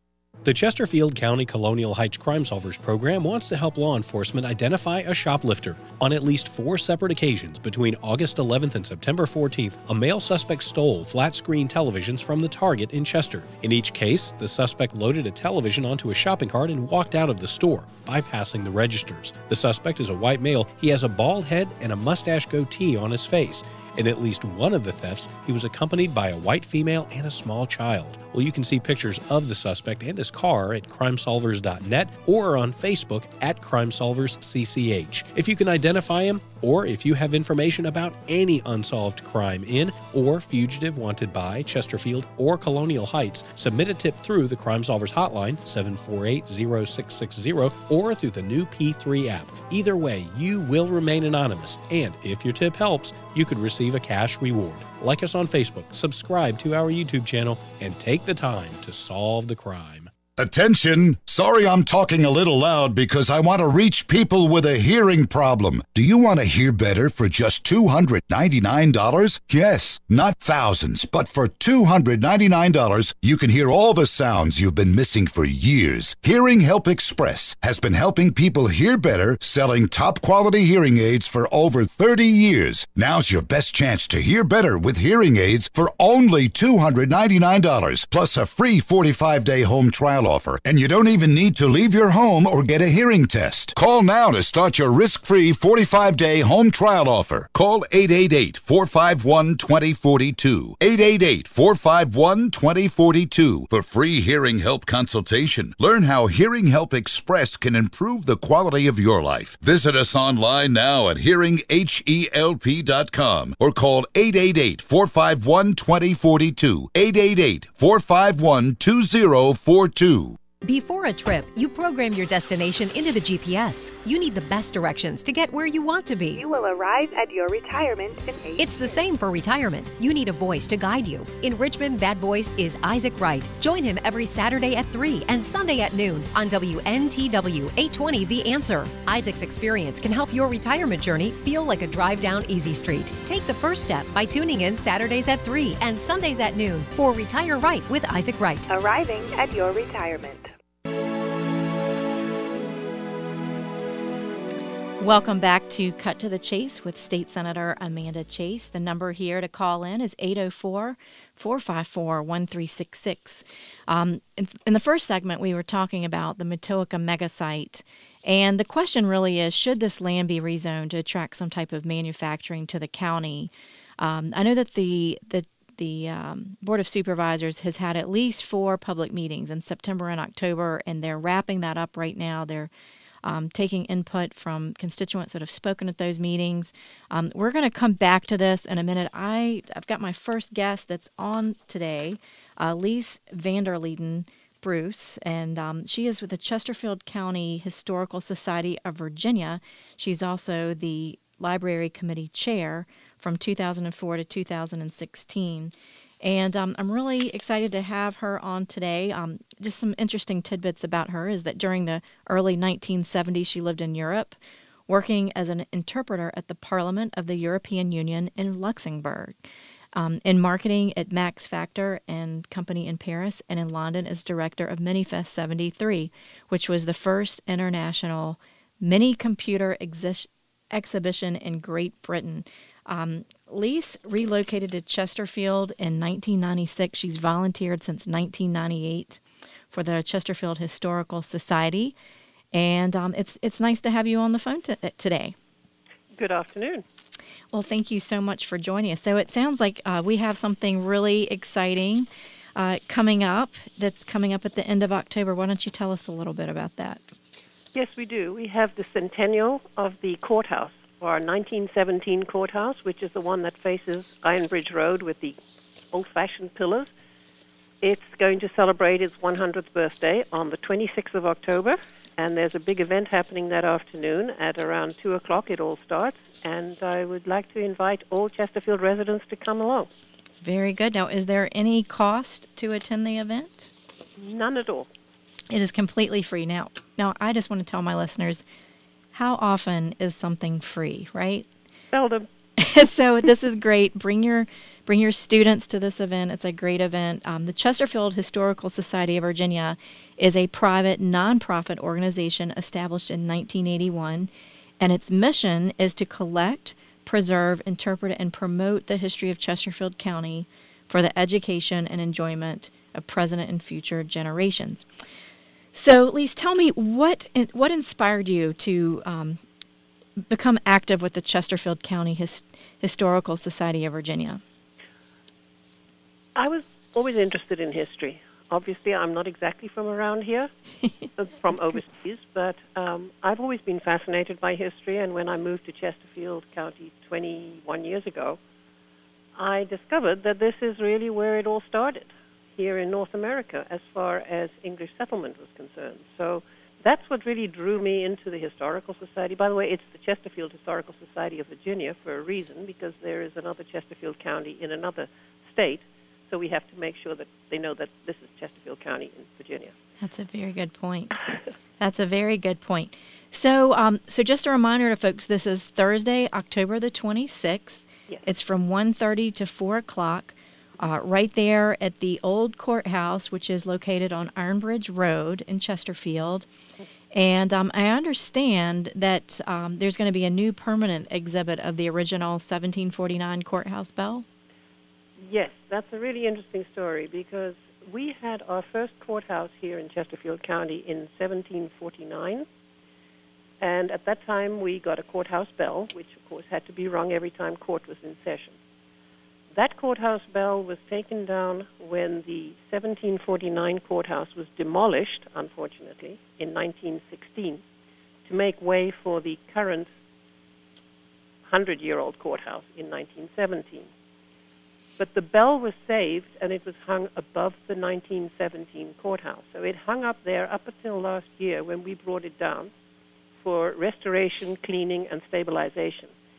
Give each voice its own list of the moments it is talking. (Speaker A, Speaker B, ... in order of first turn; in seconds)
Speaker A: 0.4-60.1
Speaker B: 60.4-120.4
Speaker C: 120.6-126.4, 128.6-148.7
Speaker D: 126.3-129.0, 148.7-150.5
Speaker E: 155.0-182.7, 183.2-214.3, 214.9-219.3, 219.9-241.9, 242.5-245.3, 247.5-257.0, 280.4-283.7, 285.5-288.4, 289.1-291.5, 292.6-314.9, 315.7-319.4, 320.3-324.4, 360.0-361.2, 361.8-376.5, 377.1-384.2
Speaker F: 246.1-246.8, 257.7-265.4, 265.9-266.9, 267.8-279.9, 284.2-284.9, 291.9-292.3, 326.4-330.5, 331.2-338.4, 339.4-359.7, 385.2-392.4, 393.6-398.6, 399.5-407.6, 408.2-409.9, 411.5-413.9, 415.0-422.7, 423.4-426.1